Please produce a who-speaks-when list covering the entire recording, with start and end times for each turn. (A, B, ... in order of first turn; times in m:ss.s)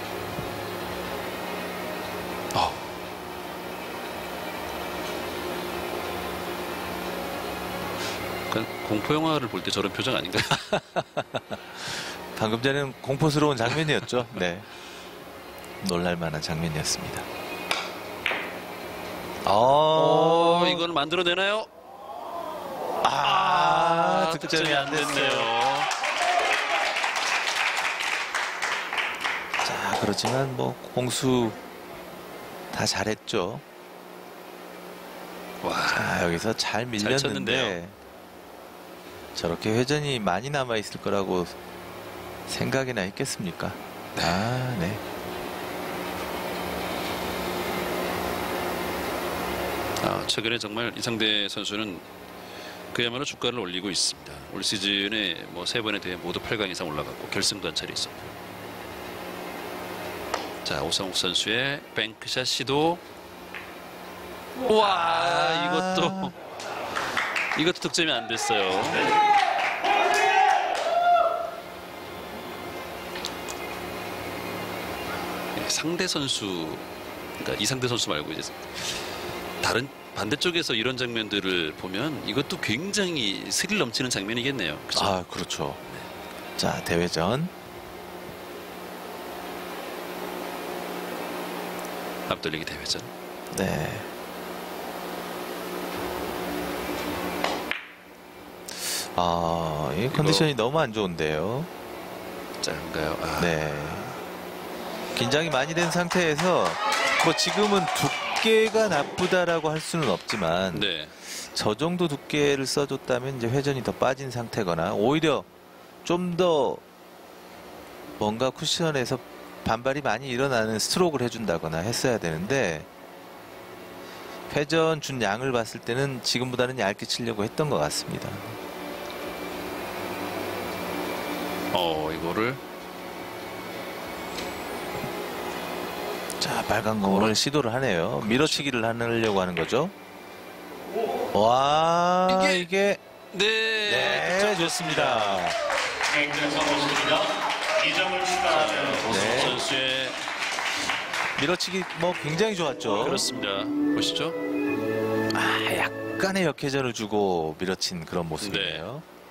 0:02.5-0:02.8 A
0:08.5-0:10.7 A
0:10.4-0:14.7 B
0:13.7-0:14.4 A
0:15.8-0:17.2 B
0:19.4-0:20.9 B
0:19.9-0:21.7 A
0:23.0-0:25.5 B
0:23.2-0:25.9 A
0:29.6-0:31.6 B
0:32.7-0:33.6 B
0:35.6-0:36.4 A
0:35.9-0:38.0 B
0:37.0-0:37.8 A
0:39.4-0:41.6 B
0:42.5-0:45.0 B
0:44.2-0:44.6 A
0:50.0-0:52.1 A
0:52.9-0:58.4 A
1:00.6-1:03.0 A
1:04.6-1:06.4 A
1:04.7-1:06.3 B
1:07.6-1:09.1 A
1:15.5-1:16.9 A
1:17.4-1:19.0 A
1:19.6-1:25.2 A
1:24.9-1:25.8 B
1:25.8-1:26.1 A
1:26.6-1:27.5 B
1:32.3-1:33.1 A
1:33.5-1:34.1 B
1:38.7-1:41.7 B
1:40.1-1:40.5 A
1:42.6-1:44.2 A
1:43.4-1:44.2 B
1:45.2-1:55.5 B
1:50.7-1:51.1 A
1:56.0-1:56.8 B
1:58.2-2:02.9 B
2:04.5-2:08.6 B
2:11.7-2:12.6 A
2:16.4-2:19.9 B
2:17.1-2:17.4 A
2:18.2-2:18.7 A
2:21.3-2:23.0 B
2:22.3-2:22.7 A
2:23.3-2:25.4 A
2:23.9-2:25.6 B
2:26.1-2:29.0 C
2:28.5-2:30.2 A
2:29.0-2:29.6 B
2:31.4-2:33.2 B
2:32.9-2:34.4 A
2:35.3-2:39.0 B
2:38.4-2:38.9 A